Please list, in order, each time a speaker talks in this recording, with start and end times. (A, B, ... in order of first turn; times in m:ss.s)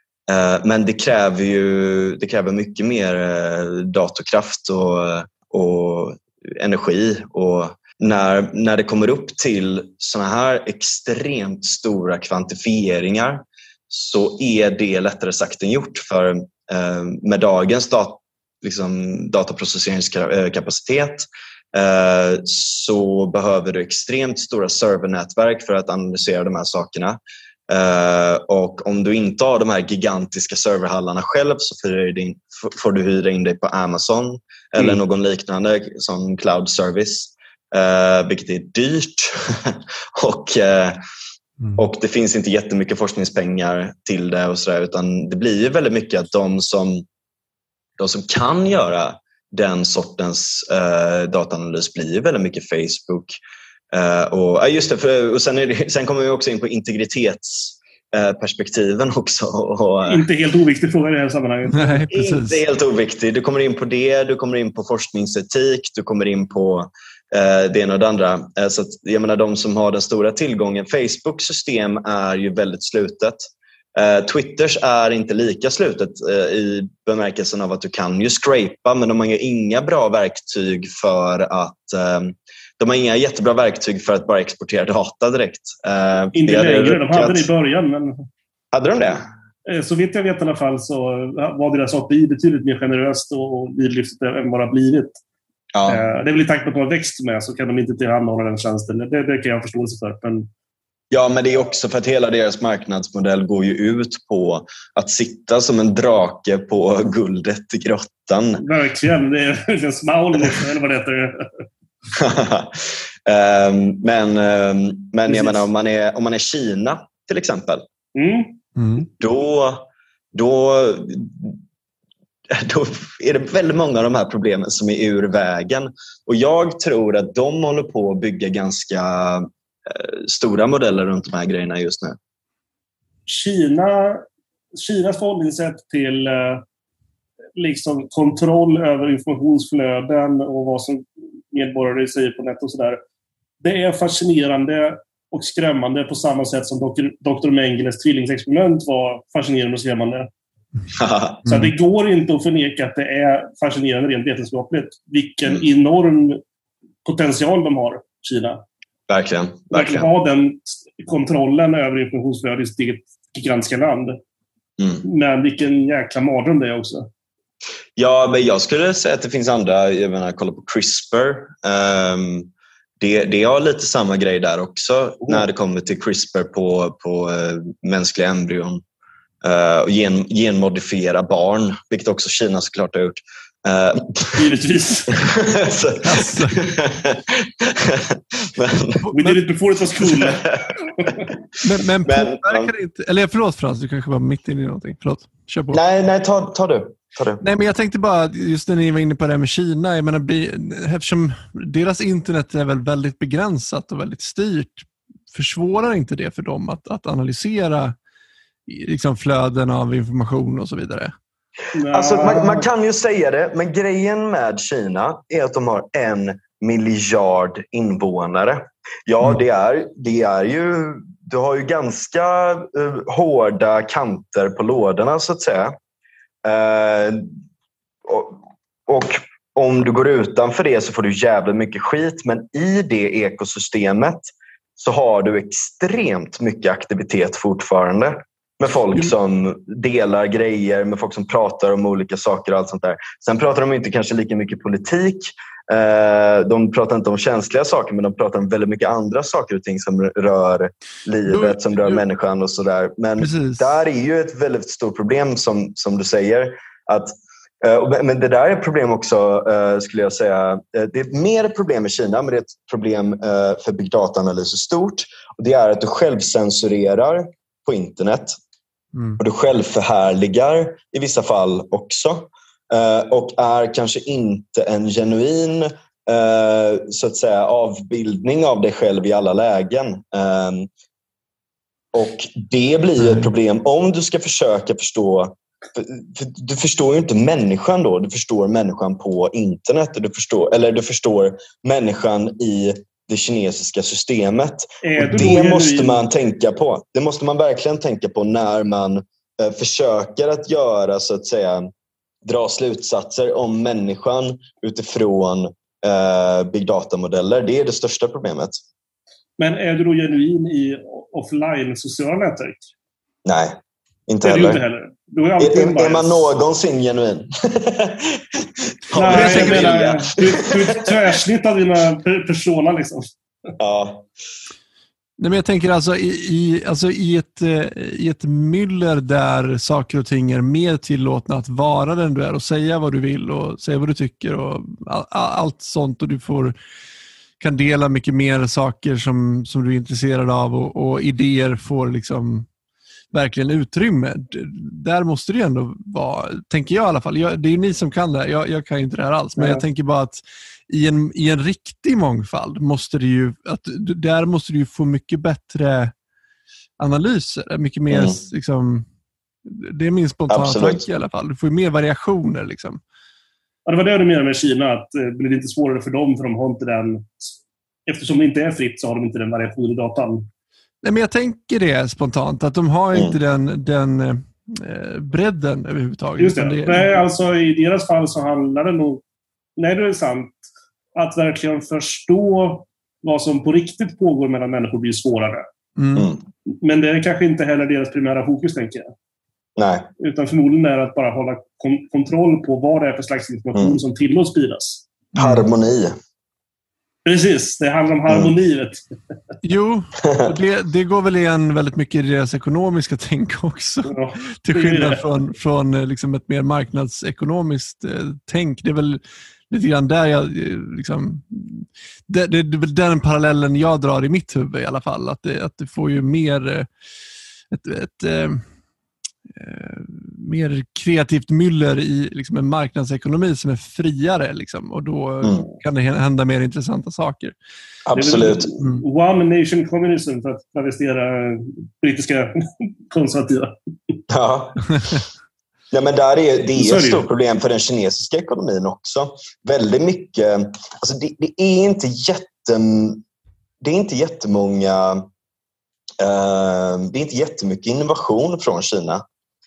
0:00.3-0:41.0 A
0:41.8-0:47.1 A
0:48.0-0:53.3 A
0:53.9-1:00.2 A
1:00.1-1:02.0 B
1:01.7-1:02.6 C
1:02.1-1:13.4 A
1:14.0-1:27.5 A
1:26.4-1:28.2 B
1:28.7-1:29.2 A
1:29.7-1:35.2 B
1:35.7-1:36.0 A
1:35.9-1:40.5 B
1:41.1-1:48.6 A
1:48.6-1:51.7 B
1:52.1-1:57.8 A
1:55.3-1:55.6 B
1:58.1-1:58.6 B
1:58.8-1:59.0 C
1:59.2-2:01.6 A
2:02.5-2:12.2 A
2:13.3-2:14.2 B
2:14.8-2:16.6 B
2:17.6-2:23.0 B
2:23.6-2:30.3 B
2:30.9-2:31.4 A
2:31.4-2:36.4 B
2:31.5-2:31.7 C
2:37.0-2:38.6 B
2:39.1-2:40.1 A
2:39.7-2:44.2 B
2:44.8-2:45.0 A
2:45.0-2:47.1 B
2:48.0-2:58.8 A
2:59.4-3:04.4 A
3:04.4-3:05.1 B
3:05.1-3:09.0 A
3:06.0-3:06.6 C
3:09.0-3:09.4 C
3:09.1-3:11.3 B
3:10.0-3:10.6 A
3:11.6-3:15.8 C
3:12.0-3:12.7 A
3:15.7-3:17.4 A
3:17.4-3:28.0 C
3:28.7-3:31.1 C
3:31.7-3:32.7 B
3:31.9-3:45.8 A
3:46.4-3:47.3 A
3:48.0-4:28.4 A
4:11.3-4:12.0 C
4:13.2-4:13.7 C
4:28.9-4:29.2 C
4:29.2-4:40.7 A
4:41.9-5:01.7 A
4:54.8-4:56.0 B
5:02.2-5:08.6 A
5:09.4-5:12.7 B
5:13.2-5:13.6 A
5:14.1-5:14.6 A
5:14.2-5:16.3 B
5:15.4-5:21.0 A
5:18.9-5:23.1 B
5:19.0-5:20.0 C
5:23.6-5:24.1 A
5:25.2-5:36.6 C
5:37.4-5:42.5 C
5:43.1-5:55.9 C
5:49.4-5:49.6 B
5:56.8-5:58.9 C
5:57.9-5:58.2 A
5:59.4-6:02.8 C
6:00.3-6:00.8 A
6:03.7-6:07.4 B
6:07.9-6:10.3 B
6:10.8-6:17.0 C
6:16.2-6:19.0 B
6:19.6-6:20.4 B
6:21.0-6:25.4 B
6:25.8-6:26.1 C
6:26.0-6:26.2 A
6:26.5-6:28.9 B
6:29.6-6:29.9 A
6:30.0-6:34.9 B
6:35.2-6:36.0 A
6:35.2-6:35.4 C
6:37.0-6:38.8 B
6:38.1-6:38.3 A
6:39.4-6:56.7 C
6:40.0-6:40.3 A
6:43.8-6:45.0 B
6:57.5-6:58.4 C
6:59.4-7:07.4 C
7:07.9-7:08.5 A
7:08.0-7:14.0 B
7:14.1-7:15.0 A
7:15.7-7:23.0 A
7:16.6-7:17.0 B
7:23.6-7:25.0 A
7:26.0-7:29.0 A